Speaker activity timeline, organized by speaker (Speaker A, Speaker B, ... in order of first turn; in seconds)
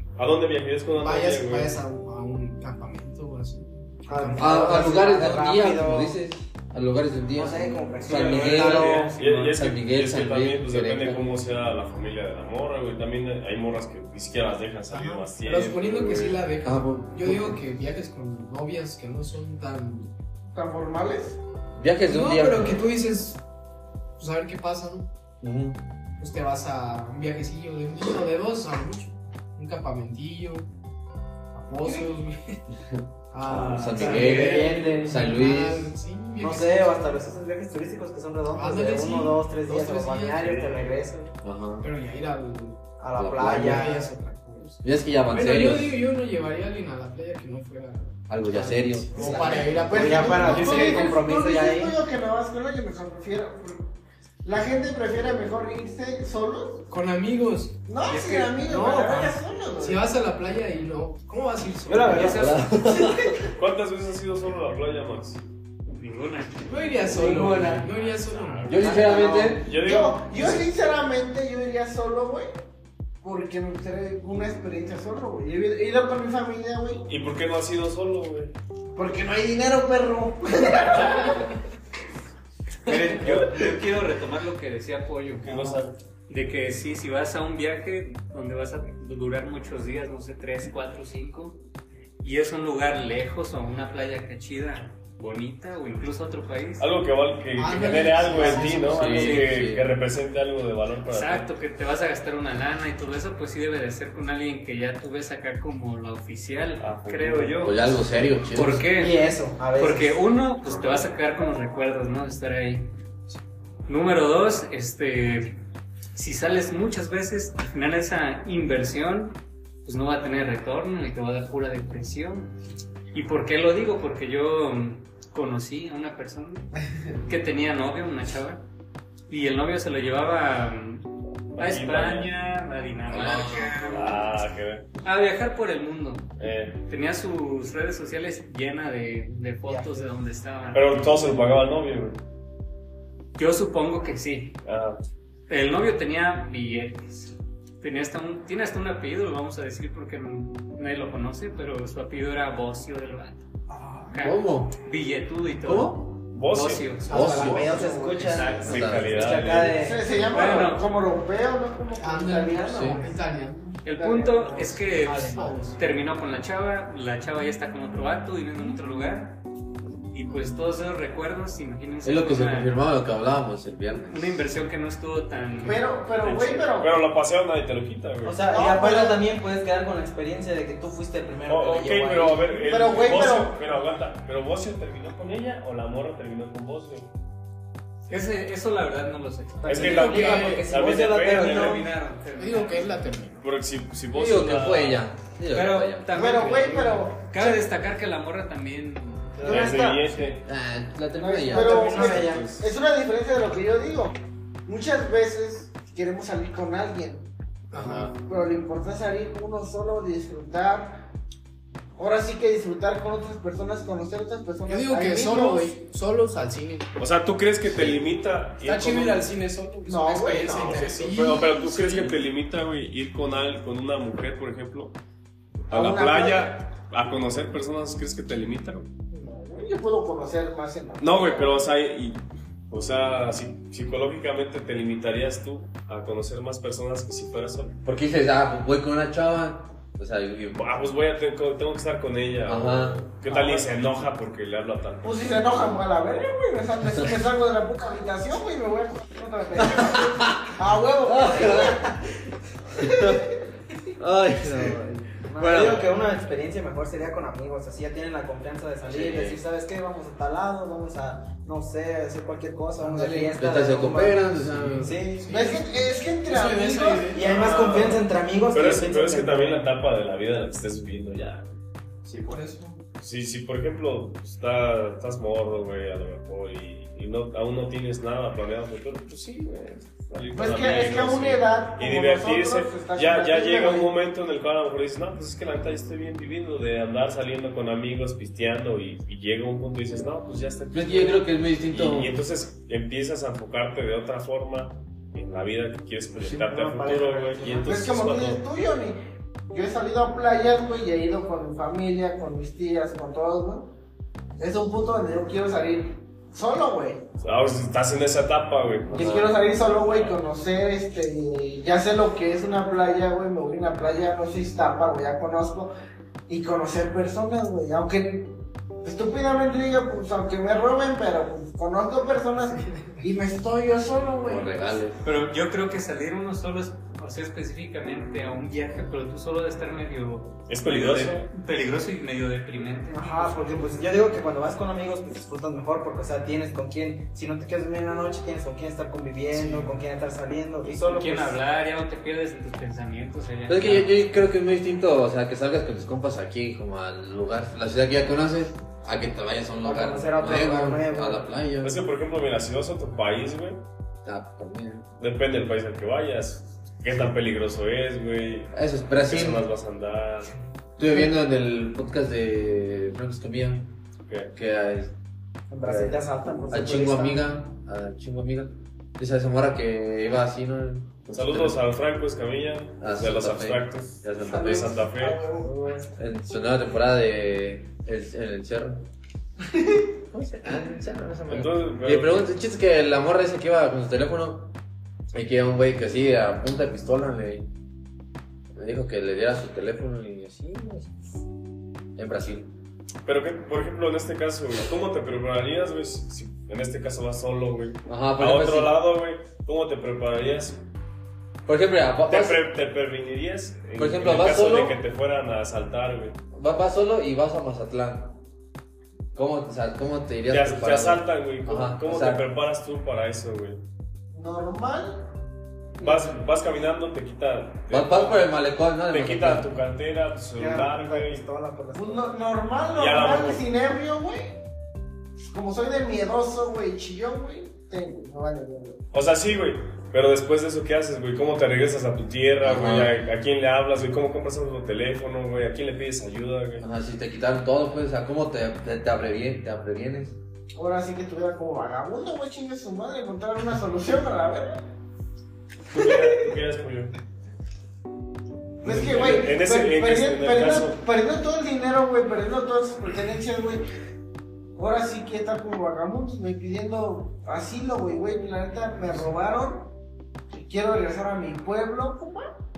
Speaker A: 0.2-1.8, 9.1-16.4, 40.4-40.9, 63.5-65.4, 68.1-70.7, 77.1-78.5, 83.0-83.7, 85.4-85.9, 96.8-101.5, 106.8-107.7, 131.5-132.3, 133.8-134.9, 136.4-136.8, 140.7-142.2, 144.6-145.0, 156.3-156.9, 158.6-159.9, 176.2-178.4, 181.5-187.1, 189.7-191.9, 193.4-195.1, 199.4-200.4, 202.0-202.6, 217.0-219.2, 220.5-224.9, 225.7-228.9, 231.0-237.8, 240.5-245.4, 267.2-271.5, 273.0-298.4, 307.2-310.2, 330.5-331.3, 351.6-353.6, 355.0-360.3, 371.1-375.2, 381.3-382.3, 393.0-400.6, 402.1-406.2, 410.3-413.6, 415.8-418.3, 418.9-421.2, 422.7-423.4, 428.9-436.6, 445.7-446.9, 448.6-450.8
Speaker B: 1.0-5.1, 14.9-20.1, 22.1-23.4, 24.2-25.1, 26.2-30.7, 31.5-32.6, 33.3-37.1, 38.5-40.7, 41.8-42.8, 43.4-51.2, 56.9-57.8, 58.6-62.4, 66.7-68.9, 97.6-99.2, 153.7-154.1, 157.1-158.3, 162.0-163.8, 164.8-165.8, 189.8-190.7, 192.3-193.4, 207.7-208.2, 214.7-216.9, 218.6-222.1, 264.3-267.4, 272.1-272.8, 322.6-323.0, 339.3-339.7
Speaker C: 4.1-6.2, 7.3-9.2, 33.8-35.2, 36.4-41.3, 43.0-44.1, 49.1-51.9, 61.9-62.4, 67.0-67.9, 68.8-69.6, 109.0-110.1, 139.7-140.1, 157.1-160.1, 165.0-165.7, 178.2-182.7, 189.6-191.9, 199.4-199.9, 201.5-202.5, 255.1-265.3, 267.1-269.7, 296.2-297.8, 332.9-341.4, 349.6-351.3, 365.5-367.2, 420.3-422.1
Speaker D: 4.4-11.3, 16.6-17.6, 21.8-22.8, 25.4-25.8, 32.9-35.9, 41.4-41.9, 43.2-43.9, 44.8-45.9, 48.3-49.7, 62.1-63.5, 68.7-69.7, 98.5-99.9, 107.6-108.8, 133.1-134.3, 154.1-154.8, 155.6-156.1, 157.1-157.9, 158.6-159.2, 162.7-163.0, 172.0-174.4, 194.1-196.3, 200.4-202.2, 207.8-208.0, 237.8-240.8, 242.4-243.0, 249.6-251.8, 252.8-253.3, 254.0-256.0, 258.9-259.4, 262.8-264.9, 290.7-292.1, 308.9-309.3, 324.2-325.0, 343.5-351.8, 354.0-354.9, 358.5-359.5, 360.8-363.7, 364.3-364.9, 365.6-371.6, 372.8-374.8, 375.9-378.9, 380.1-384.5, 385.1-387.5, 388.5-390.9, 391.9-392.5, 397.9-398.8, 401.4-402.4, 403.8-404.8, 406.3-408.2, 409.1-412.2, 417.7-419.5, 432.4-432.9, 436.6-440.2
Speaker E: 8.1-9.5, 58.0-58.6, 62.0-62.7, 65.9-67.2, 82.8-91.6, 92.2-96.9, 98.6-99.6, 101.0-107.9, 108.5-109.2, 109.7-112.9, 113.9-115.6, 116.1-122.5, 123.1-126.7, 127.3-128.6, 129.3-134.3, 135.0-136.3, 136.9-141.1, 143.3-144.6, 145.5-153.4, 154.1-159.2, 160.3-160.9, 163.8-169.4, 170.1-172.7, 173.9-175.8, 188.1-193.1, 195.5-199.6, 325.0-333.8, 340.7-343.9
Speaker F: 20.5-21.4, 49.9-53.9, 54.4-56.9, 57.9-60.1, 69.7-72.5, 73.2-77.1, 78.9-81.5, 159.8-163.2, 163.9-164.6, 175.6-176.9, 178.4-179.2, 182.7-183.6, 196.1-197.6, 199.4-200.0, 201.2-207.3, 207.9-211.1, 212.0-215.7, 219.8-221.0, 225.7-226.6, 229.1-231.7, 243.3-243.7, 245.0-252.0, 252.7-253.3, 265.3-267.2, 280.3-283.9, 297.6-299.0, 299.5-303.7, 304.4-307.0, 308.9-315.7, 316.3-324.6, 374.2-375.9, 379.6-379.8, 414.1-415.1, 415.8-416.2, 421.7-424.4, 425.3-428.8, 440.6-444.6, 445.7-446.0, 448.6-453.6, 454.6-459.7, 460.3-462.3